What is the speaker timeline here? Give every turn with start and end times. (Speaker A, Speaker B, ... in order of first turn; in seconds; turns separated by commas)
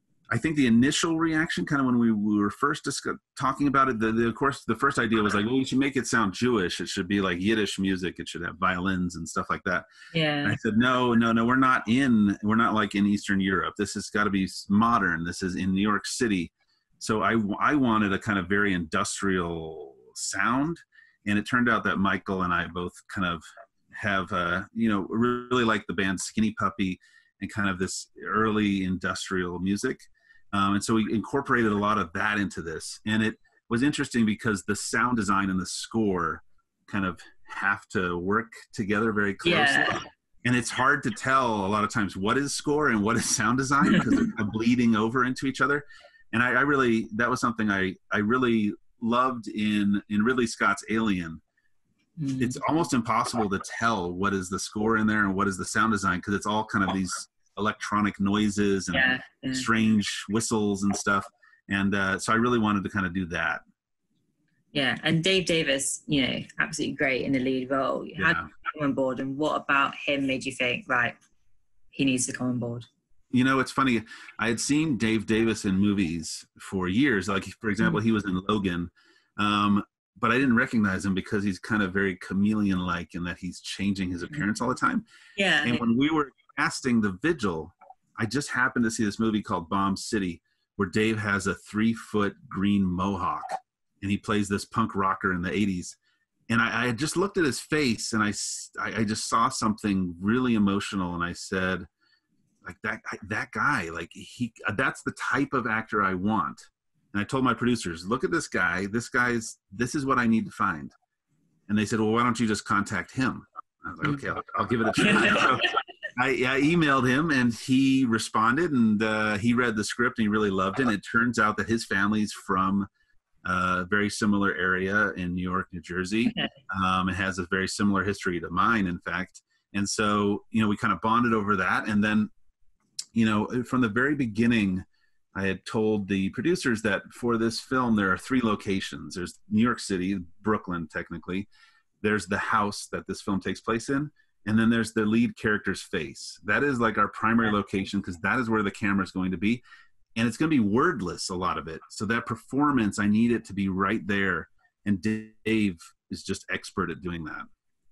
Speaker A: 0.3-9.8, Speaker B: 10.1-10.6, Speaker A: 10.4-51.4, Speaker B: 39.4-40.0, Speaker B: 52.2-52.6, Speaker A: 52.4-63.6, Speaker B: 58.9-59.7, Speaker B: 64.7-71.2, Speaker A: 68.2-68.5, Speaker B: 71.9-72.8, Speaker A: 73.3-85.0, Speaker B: 85.3-85.8, Speaker A: 85.6-96.0, Speaker A: 96.5-101.9, Speaker A: 102.6-110.9, Speaker A: 111.7-122.9, Speaker B: 115.0-115.6, Speaker A: 123.4-132.3, Speaker B: 126.2-126.5, Speaker A: 133.1-134.8, Speaker A: 135.3-141.5, Speaker A: 142.0-149.6, Speaker A: 150.2-157.5